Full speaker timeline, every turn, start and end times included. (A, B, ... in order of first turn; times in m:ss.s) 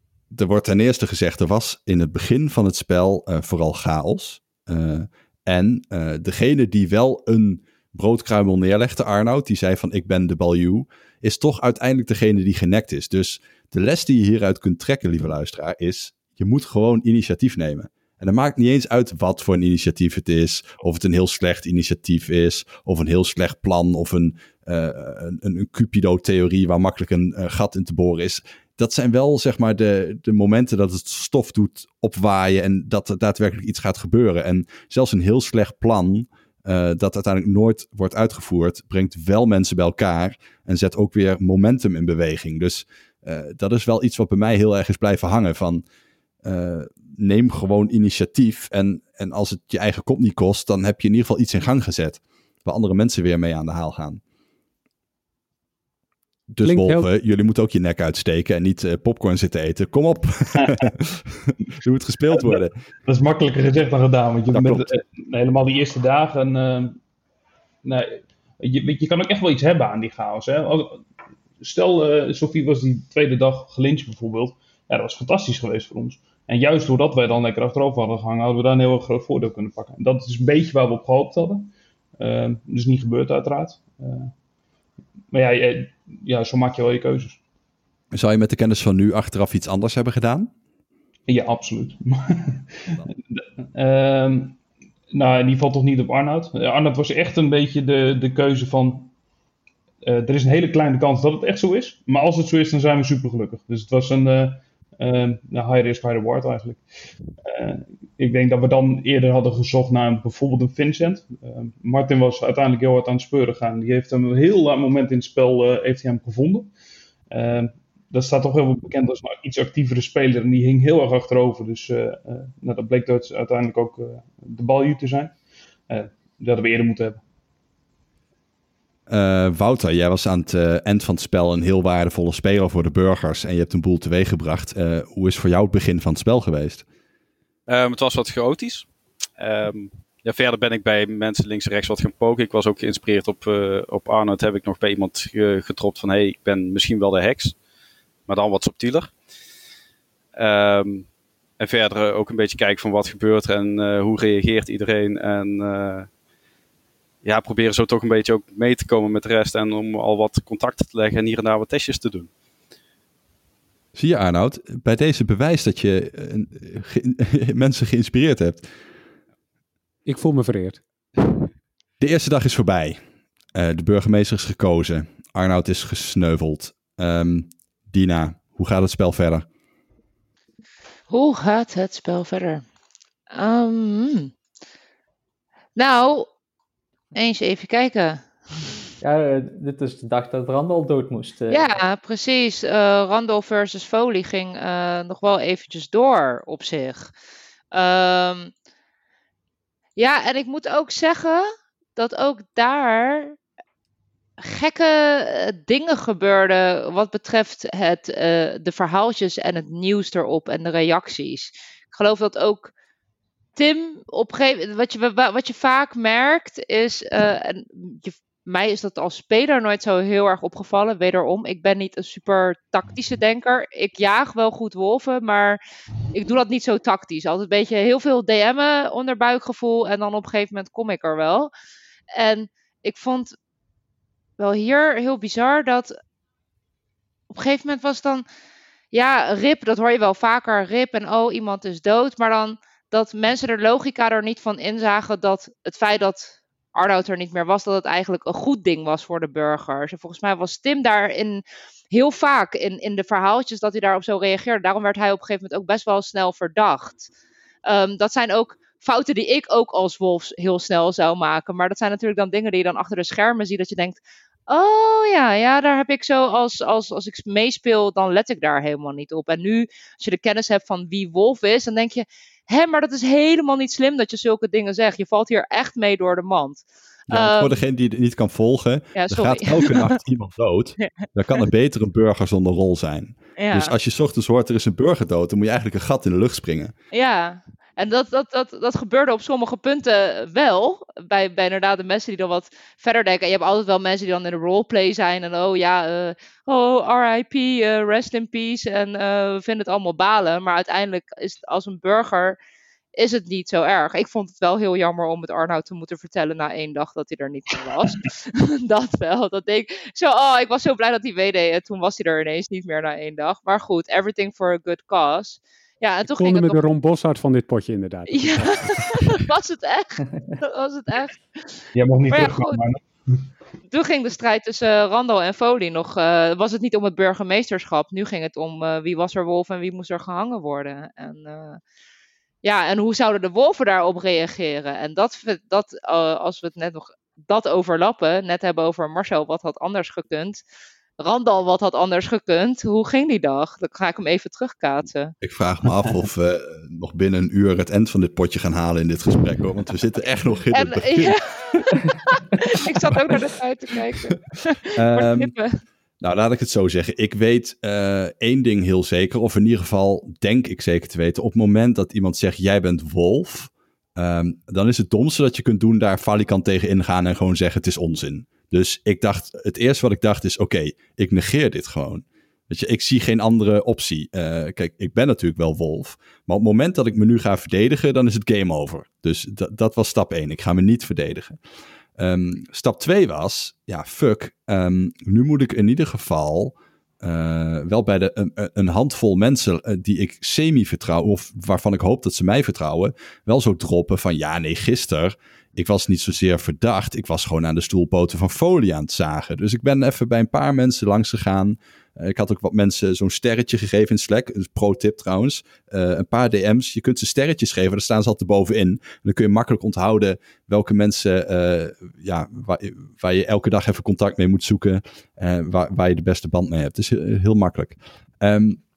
0:00.3-0:45.8 A
0:46.4-0:54.2 A
0:56.5-1:02.7 A
0:56.6-0:57.1 B
1:02.3-1:07.0 C
1:04.5-1:04.8 A
1:07.8-1:11.0 C
1:11.6-1:24.3 C
1:25.3-1:27.4 C
1:28.1-1:30.5 A
1:31.3-1:34.6 C
1:35.1-1:39.1 C
1:40.0-1:46.8 C
1:47.4-1:56.7 C
1:57.3-2:05.4 C
2:05.9-2:07.2 C
2:09.1-2:16.8 A
2:17.7-2:27.6 D
2:28.3-2:29.1 D
2:30.3-2:31.1 D
2:31.6-2:36.1 D
2:37.2-2:42.3 D
2:43.9-2:48.6 A
2:50.0-2:50.8 B
2:52.0-2:53.0 A
2:53.5-2:59.4 A
3:01.1-3:02.6 E
3:03.3-3:04.3 E
3:05.8-3:06.3 E
3:07.1-3:08.2 E
3:09.0-3:11.7 F
3:11.5-3:17.1 E
3:17.7-3:18.5 E
3:20.0-3:23.4 E
3:24.4-3:32.7 E
3:33.6-3:45.6 E
3:46.1-3:51.5 E
3:52.1-3:53.3 E
3:54.4-3:55.9 E
3:57.3-3:58.2 E
3:58.9-4:17.1 E
4:17.6-4:37.6 E
4:37.1-4:46.7 A
4:38.9-4:39.9 E
4:43.4-4:43.7 E
4:46.9-5:02.4 E
5:03.0-5:16.6 E
5:16.2-5:18.9 B
5:18.1-5:21.5 E
5:21.7-5:23.3 C
5:22.1-5:22.6 E
5:23.7-5:31.6 E
5:32.4-5:40.4 E
5:41.0-5:45.1 E
5:45.2-5:51.6 A
5:50.5-5:55.5 E
5:54.8-5:55.3 A
5:56.0-6:21.4 A
6:22.0-6:58.6 A